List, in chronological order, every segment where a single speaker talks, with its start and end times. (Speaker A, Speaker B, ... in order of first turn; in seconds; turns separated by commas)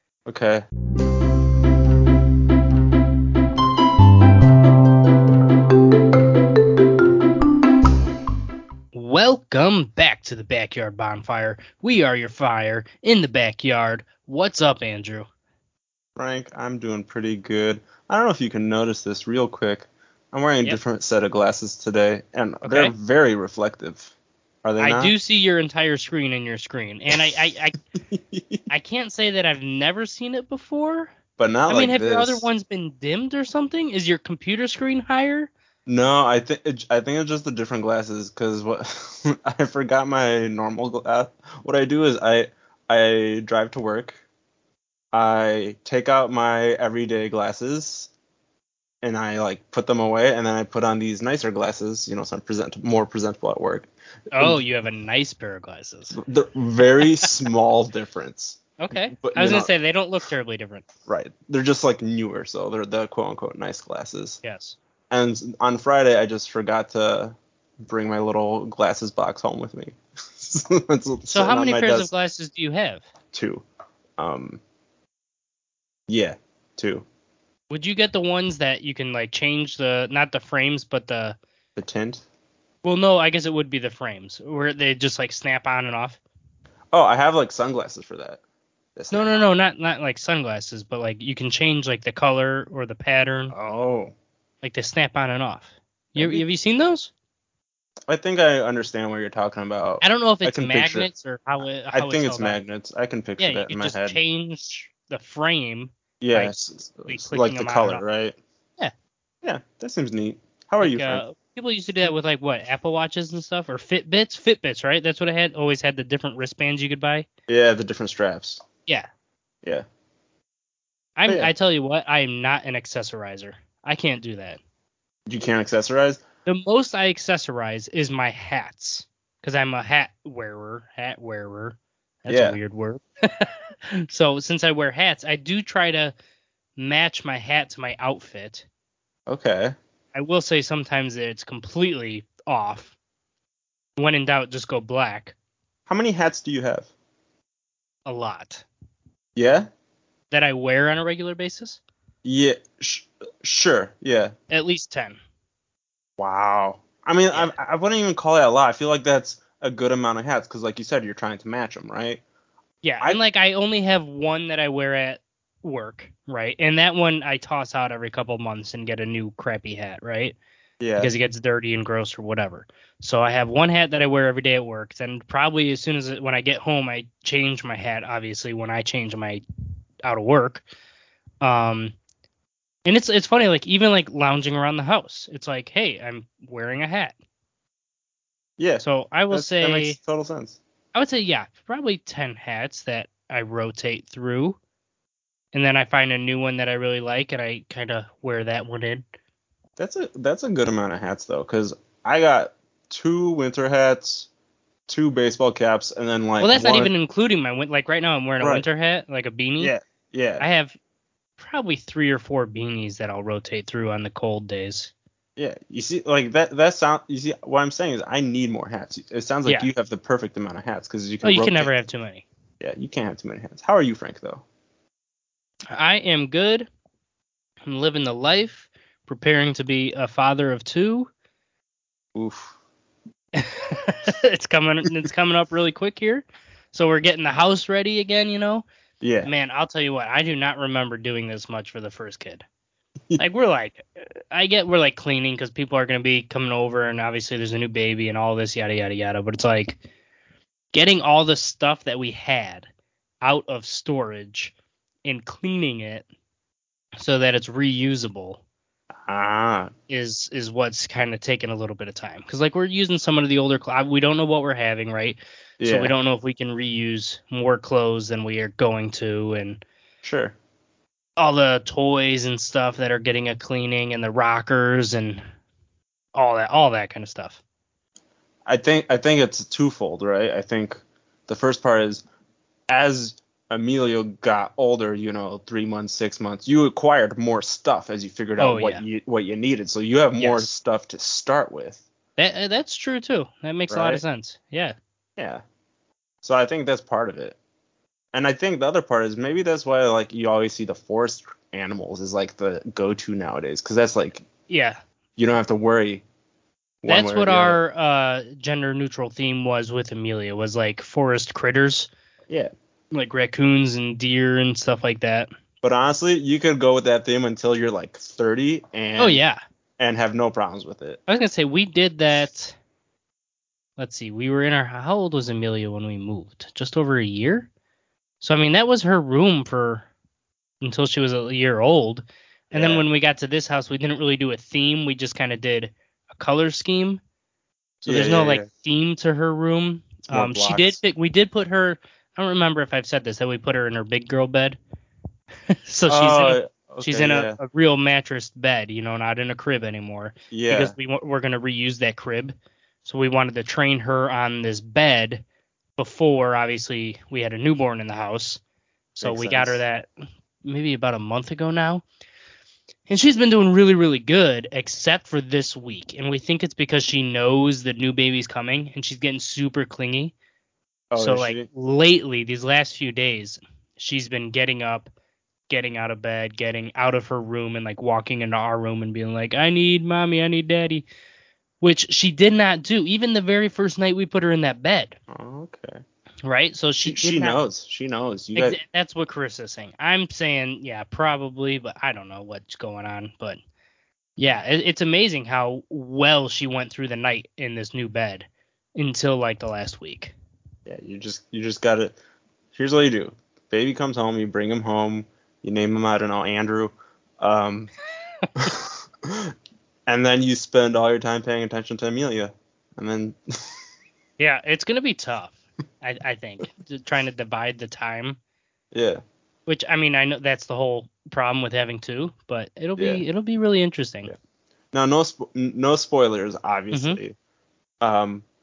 Speaker A: 0.2-0.6, Speaker B: 8.9-15.3, Speaker A: 16.2-24.1, Speaker B: 22.6-22.9, Speaker A: 24.6-25.1, Speaker B: 24.8-27.8, Speaker A: 28.1-28.6, Speaker B: 28.7-31.1, Speaker A: 31.4-32.5, Speaker B: 31.7-35.5, Speaker A: 35.9-44.2, Speaker A: 45.1-48.1, Speaker A: 49.0-54.6, Speaker B: 54.3-56.2, Speaker A: 56.1-58.6, Speaker B: 57.0-57.2, Speaker B: 58.8-60.9, Speaker A: 59.1-59.7, Speaker A: 61.1-64.4, Speaker B: 64.4-64.8, Speaker A: 65.1-72.1, Speaker B: 71.3-73.0, Speaker A: 73.3-73.6, Speaker A: 74.2-74.6, Speaker A: 76.1-77.0, Speaker B: 77.7-81.4, Speaker A: 81.8-82.2, Speaker B: 82.8-86.2, Speaker A: 86.9-88.4, Speaker A: 89.0-89.5, Speaker B: 89.1-93.5, Speaker A: 93.5-94.1, Speaker B: 94.6-97.1, Speaker A: 96.2-96.4, Speaker A: 98.1-101.1, Speaker B: 100.0-102.6, Speaker A: 101.9-104.2, Speaker B: 103.4-108.0, Speaker A: 106.2-108.3, Speaker A: 109.4-111.2, Speaker B: 110.8-117.3, Speaker A: 117.5-118.6, Speaker B: 121.2-124.6, Speaker A: 121.2-121.5, Speaker A: 125.3-126.2, Speaker B: 126.5-136.1, Speaker A: 132.3-132.6, Speaker B: 136.8-138.7, Speaker A: 139.3-139.7, Speaker B: 140.1-142.9, Speaker B: 144.0-145.3, Speaker A: 145.9-146.9, Speaker B: 148.1-148.7, Speaker A: 149.3-149.7, Speaker B: 150.3-151.8, Speaker A: 152.2-154.3, Speaker B: 154.5-155.2, Speaker A: 156.2-162.2, Speaker B: 157.3-157.6, Speaker B: 162.8-170.4, Speaker A: 170.8-171.1, Speaker B: 171.0-179.4, Speaker B: 180.0-180.6, Speaker B: 181.4-181.9, Speaker B: 182.8-187.1, Speaker A: 188.6-190.6, Speaker B: 188.8-190.0, Speaker B: 190.9-194.6, Speaker B: 195.5-199.0, Speaker A: 199.8-204.3, Speaker A: 204.9-206.9, Speaker B: 206.4-209.7, Speaker A: 208.4-208.7, Speaker A: 209.6-210.4, Speaker B: 210.4-210.7, Speaker B: 211.4-214.9, Speaker A: 215.4-221.7, Speaker B: 221.2-222.2, Speaker A: 222.6-224.4, Speaker B: 225.7-226.7, Speaker B: 227.6-231.1, Speaker A: 232.1-232.5, Speaker B: 233.3-238.6, Speaker A: 239.0-239.3, Speaker B: 239.2-242.4, Speaker B: 243.2-249.8, Speaker B: 250.7-252.7, Speaker B: 253.2-254.5, Speaker B: 255.0-256.0, Speaker B: 257.0-258.4, Speaker A: 259.1-259.7, Speaker B: 259.9-269.6, Speaker A: 265.6-265.9, Speaker A: 270.0-270.3, Speaker B: 271.2-275.2, Speaker B: 276.1-277.4, Speaker A: 278.5-282.0, Speaker A: 282.7-291.8, Speaker B: 288.4-288.9, Speaker B: 290.2-290.5, Speaker B: 292.2-294.8, Speaker A: 293.7-294.0, Speaker A: 295.2-295.4, Speaker A: 296.2-297.4, Speaker A: 298.1-304.2, Speaker B: 304.5-304.8, Speaker A: 305.2-306.0, Speaker A: 306.8-307.6, Speaker B: 306.9-311.9, Speaker B: 312.9-315.3, Speaker A: 315.6-319.2, Speaker B: 319.0-319.4, Speaker A: 319.8-321.0, Speaker B: 321.1-322.6, Speaker B: 323.8-327.5, Speaker B: 328.2-329.9, Speaker B: 330.6-337.0, Speaker A: 332.5-332.8, Speaker A: 337.8-338.5, Speaker B: 337.8-344.6, Speaker A: 340.1-340.8, Speaker B: 345.7-355.2, Speaker A: 345.9-347.4, Speaker A: 350.3-350.7, Speaker B: 355.8-358.4, Speaker B: 358.9-359.9, Speaker A: 359.0-359.6, Speaker B: 360.4-361.8, Speaker B: 362.9-370.1, Speaker A: 370.9-371.4, Speaker B: 370.9-374.9, Speaker B: 375.5-380.8, Speaker B: 381.6-385.0, Speaker A: 385.1-385.8, Speaker B: 386.2-387.4, Speaker A: 386.8-388.6, Speaker B: 388.4-393.4, Speaker B: 394.2-400.1, Speaker A: 400.6-401.9, Speaker A: 402.5-407.7, Speaker A: 408.4-409.3, Speaker A: 409.9-413.5, Speaker B: 414.2-418.2, Speaker A: 418.7-419.0, Speaker B: 419.4-424.1, Speaker A: 422.8-423.0, Speaker A: 424.7-427.1, Speaker B: 426.7-427.0, Speaker A: 427.8-428.2